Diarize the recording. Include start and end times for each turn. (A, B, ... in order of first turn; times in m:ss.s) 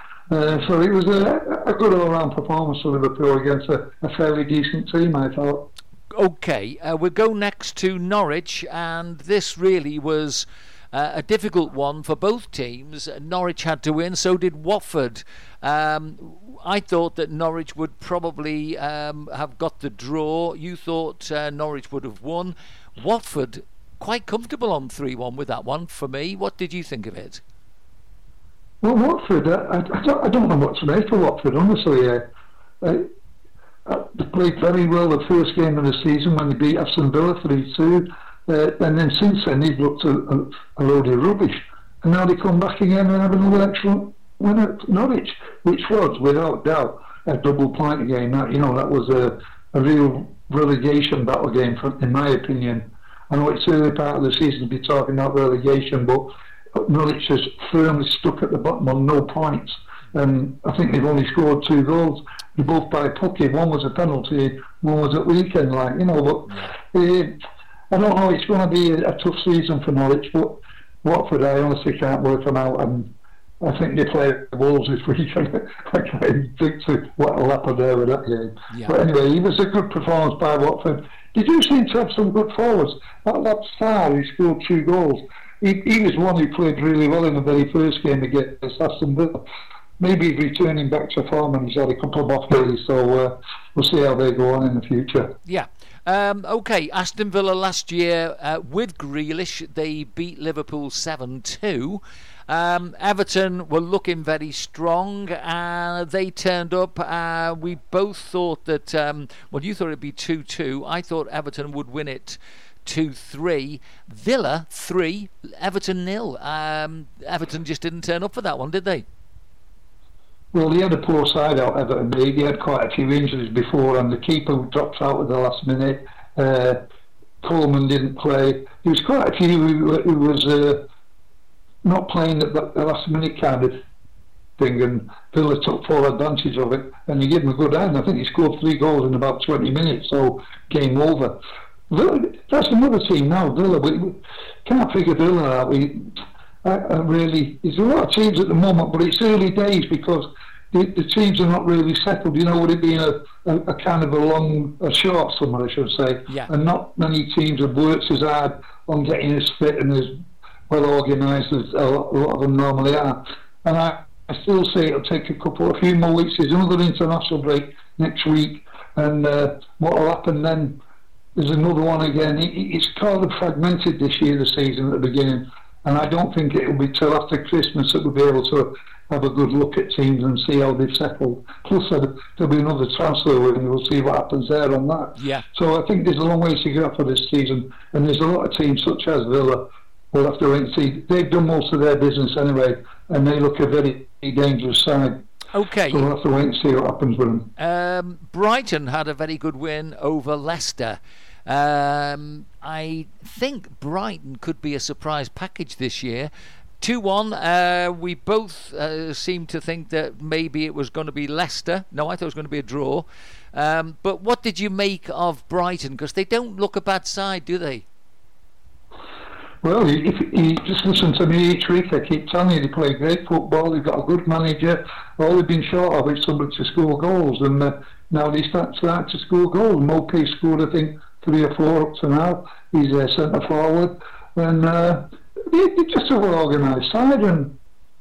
0:00.3-0:05.6 A
0:06.1-0:27.4 B
0:28.8-0:32.2 A
0:32.8-0:33.1 A
0:33.9-1:07.3 A
1:06.5-1:06.7 B
1:07.9-1:13.1 A
1:13.6-1:29.4 A
1:30.0-1:35.3 A
1:35.5-1:59.0 B
2:00.5-2:06.8 A
2:07.4-2:10.8 A
2:11.8-2:13.7 A
2:14.6-2:21.3 A
2:21.9-2:40.1 A
2:40.7-2:50.8 A
2:51.4-3:15.2 A
3:05.2-3:05.4 B
3:15.5-3:16.1 B
3:15.9-3:17.5 A
3:17.6-3:26.3 B
3:26.8-3:37.8 B
3:39.6-3:57.5 A